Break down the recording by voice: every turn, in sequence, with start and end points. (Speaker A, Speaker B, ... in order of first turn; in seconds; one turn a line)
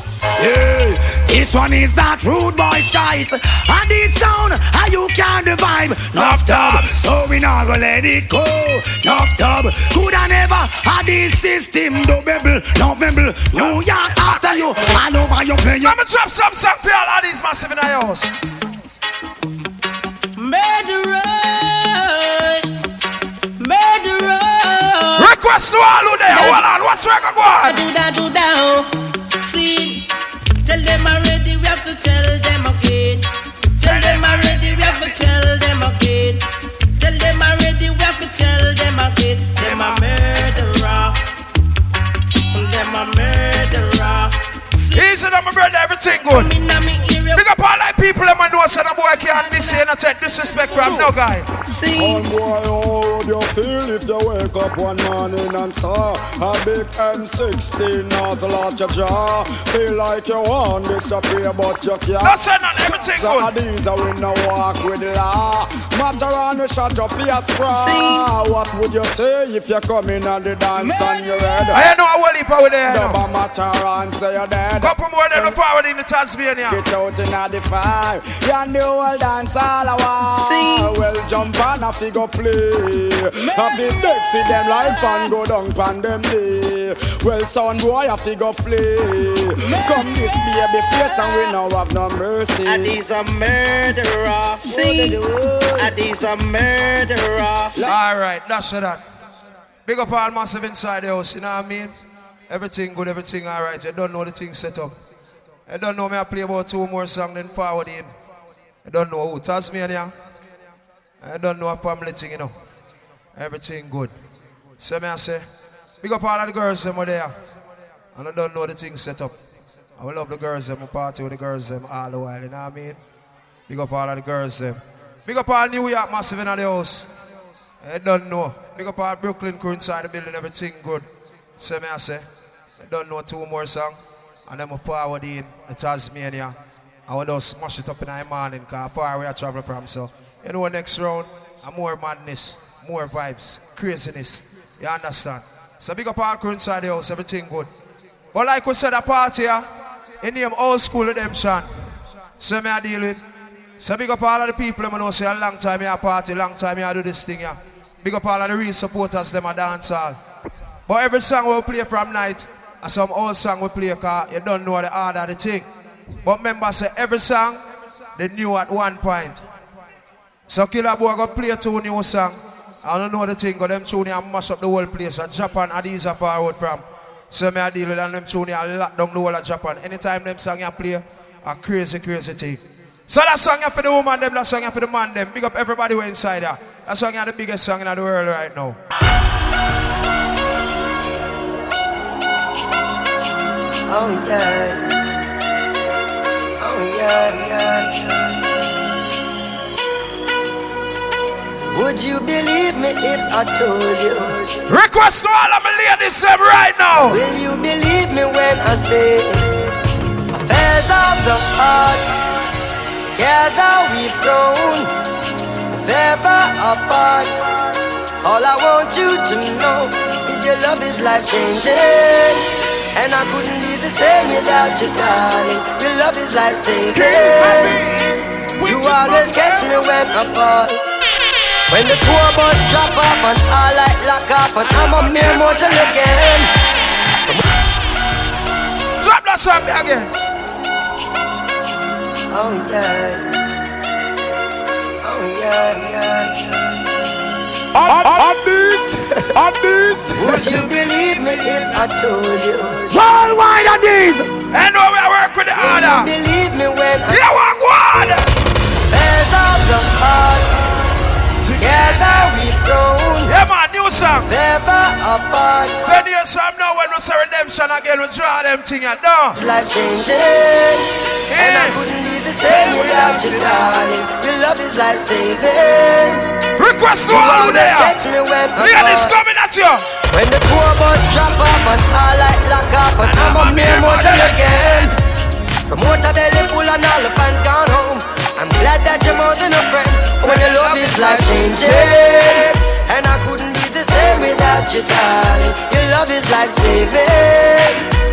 Speaker A: 0.4-16.0
Speaker B: 6.2-7.0
Speaker B: 13.6-14.7
Speaker B: 15.8-18.3
Speaker C: 20.4-22.6
Speaker C: 23.6-25.2
Speaker B: 25.1-27.8
Speaker C: 27.7-28.9
Speaker C: 29.4-30.1
Speaker C: 30.7-33.3
Speaker B: 33.8-35.2
Speaker D: 33.8-35.4
Speaker C: 33.9-36.4
Speaker C: 37.0-41.1
Speaker B: 39.6-40.0
Speaker C: 42.5-45.0
Speaker B: 44.9-46.5
Speaker C: 46.3-47.4
Speaker B: 47.3-51.5
Speaker C: 50.7-51.0
Speaker C: 51.7-52.3
Speaker E: 51.9-71.8
Speaker B: 62.2-63.5
Speaker C: 67.8-68.2
Speaker C: 70.8-71.4
Speaker B: 71.7-73.2
Speaker E: 72.9-75.6
Speaker B: 74.8-76.8
Speaker E: 76.7-93.0
Speaker C: 80.5-80.8
Speaker C: 92.7-95.2
Speaker D: 94.7-96.0
Speaker C: 95.8-97.8
Speaker B: 97.8-99.0
Speaker B: 99.9-102.0
Speaker B: 102.5-104.9
Speaker B: 105.7-108.1
Speaker B: 108.8-110.1
Speaker B: 111.2-112.5
Speaker B: 113.3-114.1
Speaker B: 114.8-115.5
Speaker B: 116.0-117.3
Speaker B: 118.2-119.3
Speaker B: 120.0-123.0
Speaker B: 123.7-127.1
Speaker B: 127.8-147.7
Speaker B: 148.3-149.7
Speaker B: 150.2-151.7
Speaker B: 152.4-153.2
Speaker B: 153.8-160.2
Speaker B: 160.9-165.7
Speaker B: 166.2-167.6
Speaker B: 168.2-169.4
Speaker B: 170.5-188.8
Speaker D: 193.9-194.8
Speaker D: 196.6-198.0
Speaker D: 201.7-204.6
Speaker B: 204.7-207.2
Speaker D: 207.1-209.6
Speaker D: 210.4-212.2
Speaker D: 213.2-214.9
Speaker D: 215.7-217.4
Speaker D: 218.2-227.8
Speaker A: 226.9-229.7
Speaker D: 228.6-230.8
Speaker D: 231.7-236.5
Speaker B: 234.7-236.2
Speaker B: 239.0-240.2
Speaker D: 242.3-243.2
Speaker D: 245.0-246.4
Speaker A: 247.7-250.4
Speaker D: 250.2-253.0
Speaker B: 250.2-251.7
Speaker A: 252.9-254.3
Speaker B: 254.5-256.1
Speaker D: 255.6-257.2
Speaker B: 257.1-258.3
Speaker D: 258.9-260.8
Speaker B: 261.4-262.3
Speaker D: 261.6-263.3
Speaker B: 263.3-264.3
Speaker D: 264.3-265.9
Speaker B: 265.8-269.4
Speaker D: 269.4-276.3
Speaker B: 271.3-271.8
Speaker B: 272.4-273.8
Speaker B: 276.6-278.0
Speaker D: 277.1-279.1
Speaker B: 278.6-280.0
Speaker D: 280.1-285.0
Speaker B: 283.0-284.9
Speaker D: 285.7-297.9
Speaker B: 290.2-292.6